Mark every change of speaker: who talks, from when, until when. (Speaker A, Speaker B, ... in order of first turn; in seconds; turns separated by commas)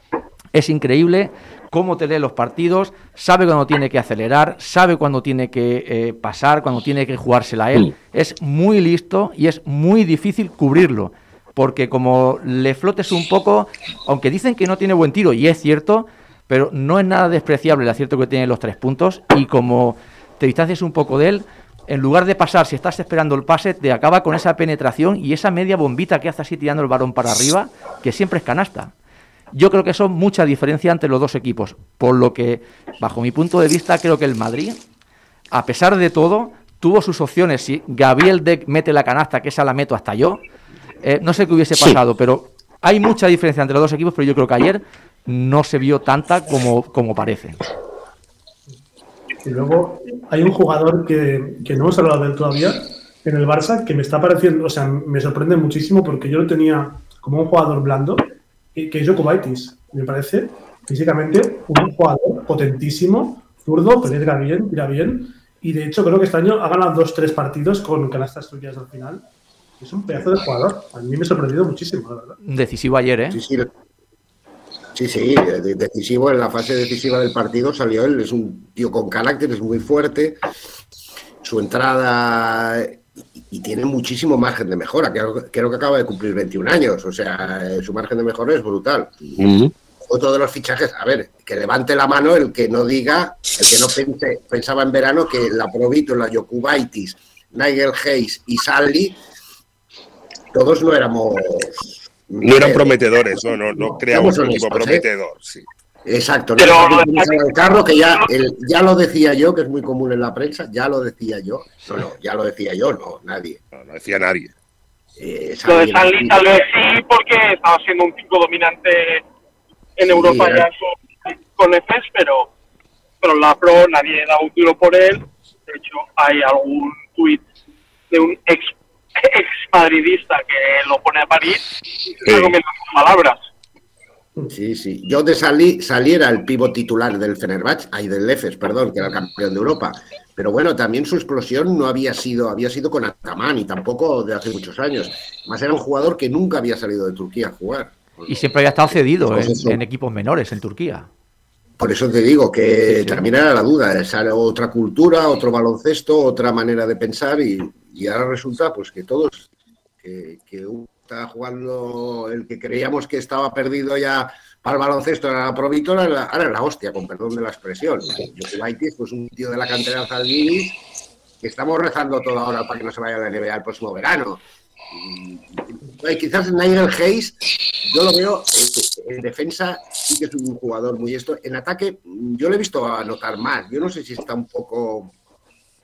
Speaker A: 0.5-28.9, Speaker A: 29.5-34.8, Speaker A: 35.5-40.4, Speaker A: 41.0-47.6, Speaker B: 49.4-69.2, Speaker B: 69.8-72.4, Speaker A: 72.4-73.4, Speaker C: 73.3-73.7, Speaker C: 74.9-80.4, Speaker C: 81.4-89.3, Speaker D: 89.4-89.7, Speaker C: 90.0-99.2, Speaker C: 100.5-105.0, Speaker D: 102.4-105.7, Speaker C: 106.0-113.6, Speaker E: 106.6-108.3, Speaker D: 113.7-114.5, Speaker C: 115.2-116.4, Speaker E: 115.7-119.2, Speaker E: 120.0-122.5, Speaker C: 120.0-120.7, Speaker E: 123.2-127.4, Speaker E: 128.1-133.5, Speaker D: 132.2-132.6, Speaker C: 134.5-148.5, Speaker A: 148.3-151.1, Speaker C: 149.2-149.8, Speaker C: 151.8-159.5, Speaker A: 152.9-153.2, Speaker C: 160.0-170.8, Speaker C: 171.4-185.1